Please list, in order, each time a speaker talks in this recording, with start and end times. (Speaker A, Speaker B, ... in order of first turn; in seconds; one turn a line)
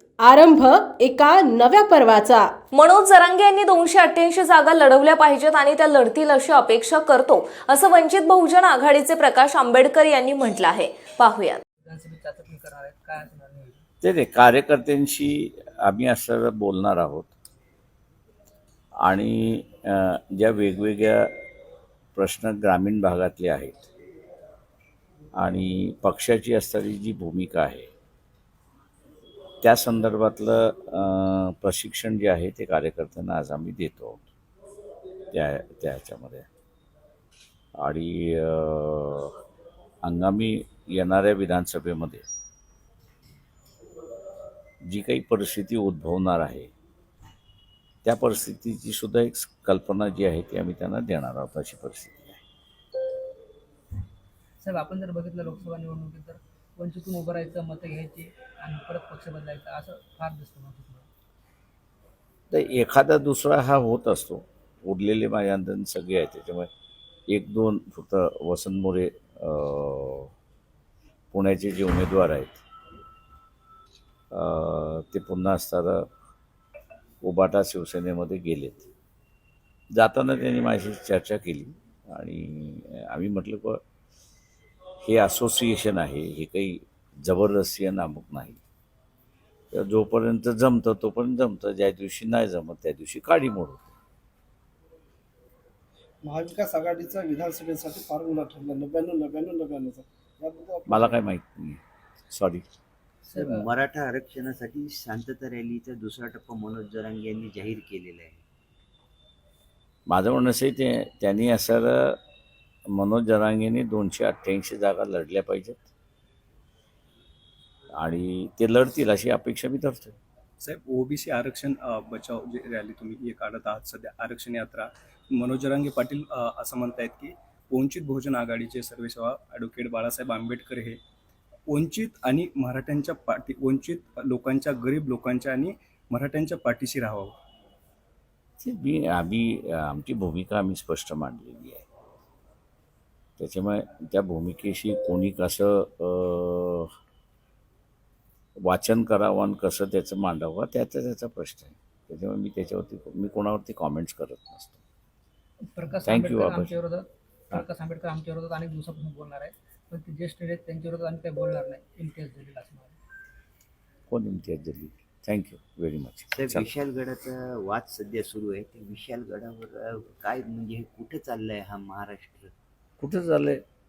Speaker A: 0.2-2.5
Speaker B: 2.7-11.6
Speaker C: 11.8-13.8
Speaker D: 14.0-17.3
Speaker D: 19.0-21.3
Speaker D: 22.1-23.9
Speaker D: 25.4-27.9
Speaker D: 29.6-34.2
Speaker D: 35.3-36.5
Speaker D: 37.8-39.4
Speaker D: 40.0-42.2
Speaker D: 44.9-46.7
Speaker D: 48.0-52.4
Speaker C: 54.6-61.1
Speaker D: 62.5-66.7
Speaker D: 67.3-70.3
Speaker D: 71.3-72.6
Speaker D: 74.3-76.1
Speaker D: 77.2-78.9
Speaker D: 79.9-83.8
Speaker D: 85.0-88.6
Speaker D: 89.7-93.9
Speaker E: 96.2-101.1
Speaker D: 100.9-102.7
Speaker C: 103.2-103.6
Speaker F: 103.3-108.4
Speaker D: 110.1-112.2
Speaker D: 112.9-115.8
Speaker D: 118.0-120.2
Speaker G: 120.6-131.0
Speaker G: 131.7-137.3
Speaker D: 138.6-141.8
Speaker D: 143.4-146.9
Speaker D: 148.6-154.8
Speaker C: 155.7-162.9
Speaker D: 156.1-156.7
Speaker D: 164.1-166.7
Speaker F: 166.3-172.5
Speaker D: 173.0-173.6